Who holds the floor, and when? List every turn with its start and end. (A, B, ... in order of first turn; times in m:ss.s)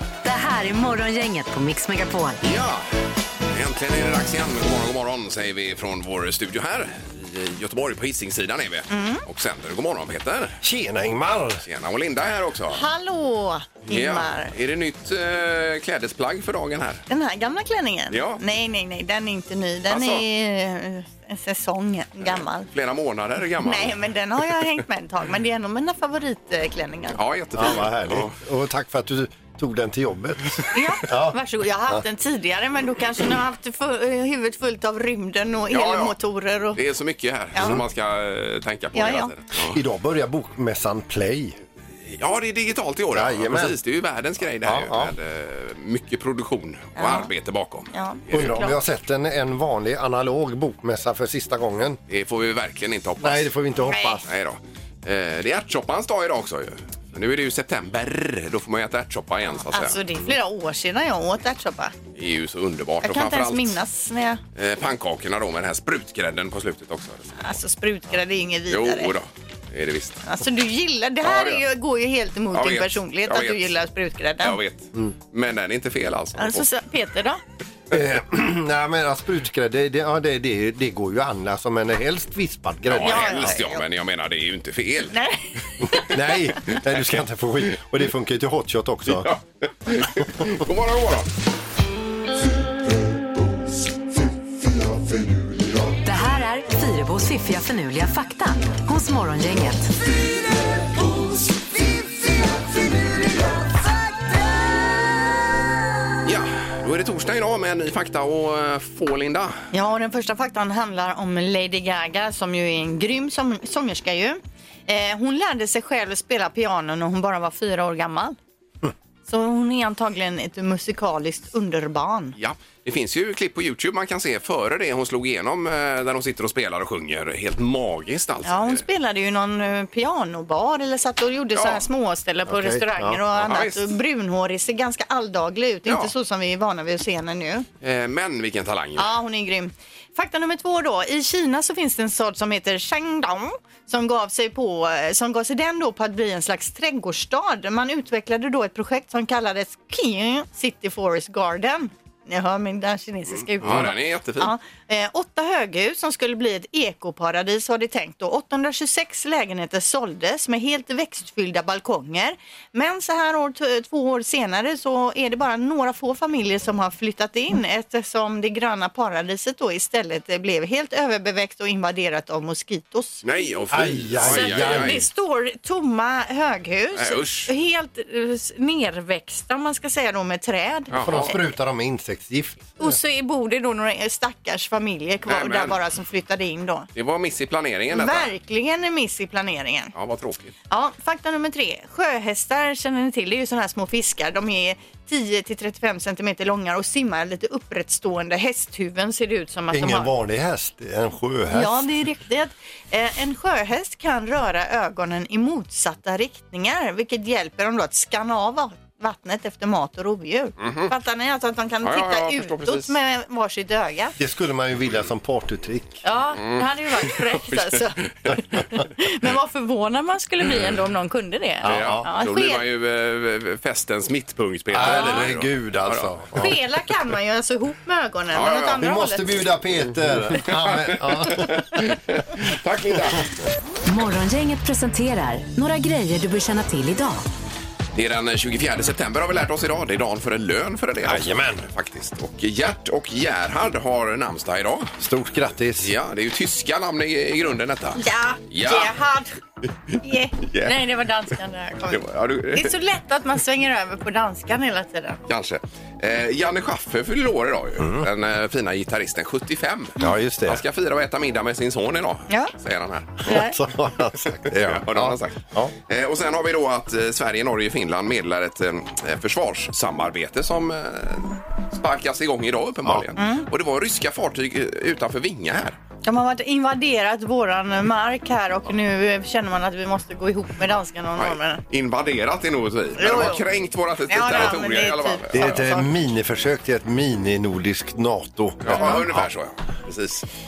0:00.2-0:02.4 A
0:02.4-0:02.8 B
0:03.5-0:10.6 B
0:08.9-0:09.2 C
0:10.6-0:11.6 D
0:11.6-0:12.8 B
0:12.7-0:14.5 C
0:13.9-0:17.0 B
0:17.1-0:22.7 C
0:18.1-0:18.4 B
0:19.9-0:20.2 B
0:22.3-0:24.0 B
0:23.6-0:27.2 C
0:27.1-0:28.4 B
0:27.6-0:31.4 D
0:30.7-0:36.8 C
0:35.7-0:36.2 B
0:36.7-0:39.8 B
0:38.9-0:39.3 C
0:39.7-0:41.6 D
0:42.1-0:48.6 B
0:43.1-0:43.8 D
0:44.6-0:45.1 D
0:47.0-0:47.3 C
0:47.9-0:48.8 C
0:48.3-0:52.0 D
0:52.1-0:53.6 B
0:53.2-0:54.3 D
0:53.8-0:54.2 C
0:54.2-1:00.0 B
0:59.6-1:02.0 C
1:02.2-1:03.8 B
1:03.0-1:04.4 C
1:04.6-1:07.6 B
1:07.4-1:09.1 C
1:08.7-1:10.2 B
1:10.2-1:14.6 C
1:11.2-1:11.6 B
1:12.5-1:13.7 B
1:14.4-1:16.7 B
1:16.4-1:17.4 C
1:17.9-1:23.6 D
1:22.9-1:25.2 B
1:23.0-1:23.8 C
1:25.1-1:26.1 C
1:26.0-1:29.3 D
1:29.1-1:31.3 B
1:36.0-1:39.9 A
1:46.2-1:49.6 B
1:49.7-1:58.4 C
1:59.3-2:02.4 C
2:02.4-2:08.8 B
2:08.4-2:17.7 C
2:11.5-2:11.8 B
2:12.5-2:13.2 D
2:13.4-2:14.0 B
2:15.8-2:16.1 B
2:17.8-2:19.1 B
2:19.0-2:53.3 C
2:33.6-2:34.5 B
2:53.2-2:55.0 B
2:53.7-2:55.0 D
2:54.2-3:00.9 C
2:57.0-2:57.5 B
3:00.9-3:01.4 B
3:01.0-3:03.0 D
3:02.8-3:06.9 C
3:05.3-3:05.8 B
3:07.0-3:08.3 B
3:07.9-3:09.9 C
3:10.0-3:10.5 B
3:10.7-3:20.1 C
3:19.7-3:21.9 D
3:21.5-3:34.2 C
3:30.6-3:30.9 B
3:31.8-3:33.0 B
3:34.2-3:36.0 D
3:36.0-3:42.6 C
3:36.4-3:36.7 B
3:41.6-3:42.1 D
3:41.6-3:46.2 B
3:44.7-3:46.6 D
3:44.8-3:45.3 C
3:46.4-3:49.4 C
3:48.3-3:48.8 B
3:48.7-3:51.9 D
3:50.4-3:53.3 B
3:53.9-3:57.2 A
3:57.9-4:04.9 B
4:01.0-4:01.7 D
4:05.0-4:05.9 D
4:05.8-4:09.0 B
4:08.0-4:09.3 C
4:10.0-4:15.2 C
4:10.5-4:10.8 B
4:11.9-4:12.8 B
4:15.3-4:23.4 B
4:17.8-4:18.1 D
4:20.0-4:20.6 D
4:23.2-4:23.6 C
4:23.3-4:25.7 D
4:24.2-4:35.8 B
4:33.2-4:33.5 C
4:36.0-4:41.6 C
4:41.2-4:45.6 B
4:43.0-4:43.4 C
4:44.1-4:45.9 C
4:45.3-4:49.2 D
4:48.6-4:50.2 B
4:48.8-4:49.0 C